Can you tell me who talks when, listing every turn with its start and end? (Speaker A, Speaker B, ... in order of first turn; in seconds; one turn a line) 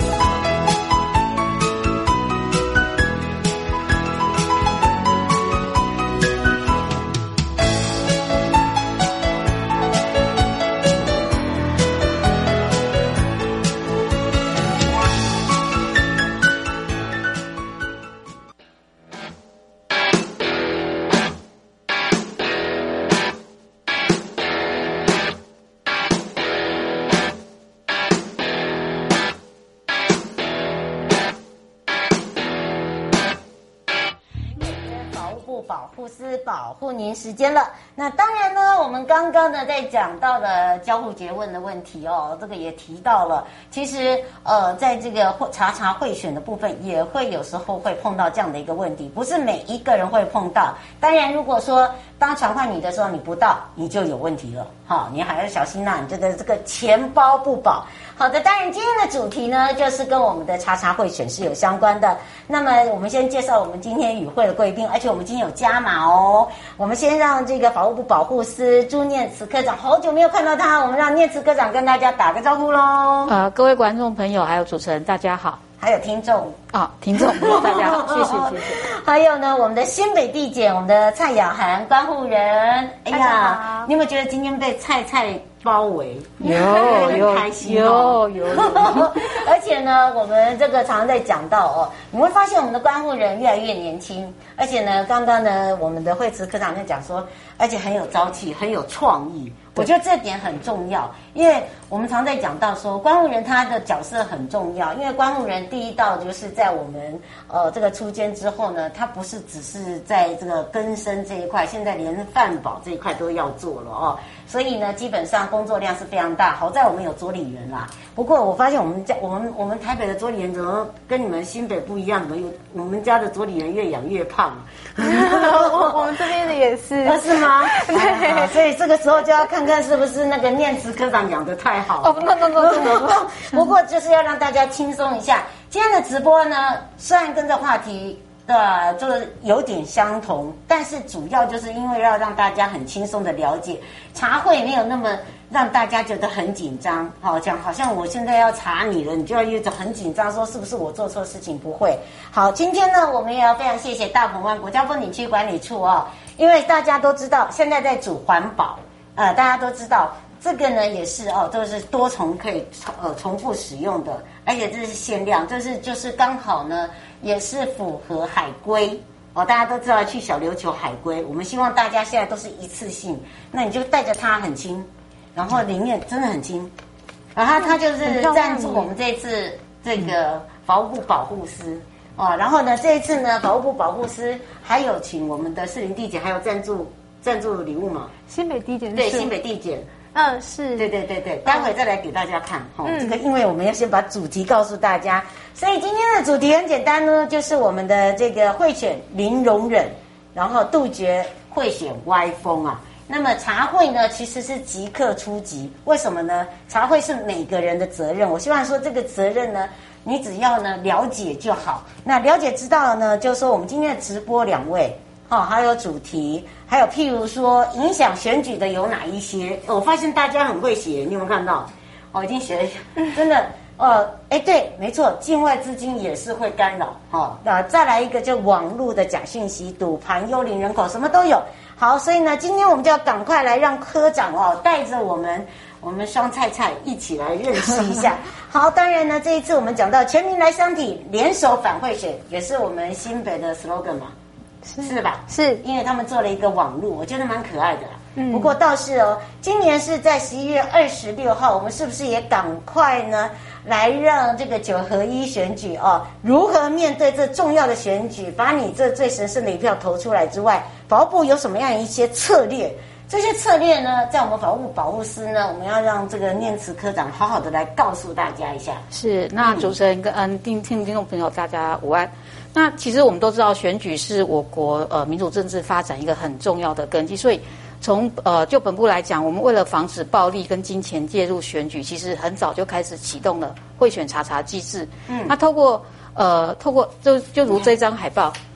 Speaker A: 34.6-73.3
Speaker B: 73.3-75.6
Speaker A: 75.8-76.6
Speaker B: 76.7-78.8
Speaker A: 77.1-126.2
Speaker C: 83.1-83.9
Speaker B: 86.4-89.4
Speaker C: 86.5-87.2
Speaker C: 125.0-128.5
Speaker A: 127.0-176.7
Speaker B: 132.0-133.2
Speaker A: 177.3-188.1
Speaker C: 178.0-178.9
Speaker C: 188.3-189.3
Speaker A: 188.9-189.9
Speaker C: 190.1-190.9
Speaker A: 190.8-244.1
Speaker C: 192.8-193.2
Speaker C: 244.7-245.6
Speaker A: 244.8-268.8
Speaker C: 248.2-248.5
Speaker B: 268.9-288.4
Speaker A: 269.4-269.7
Speaker A: 285.1-285.4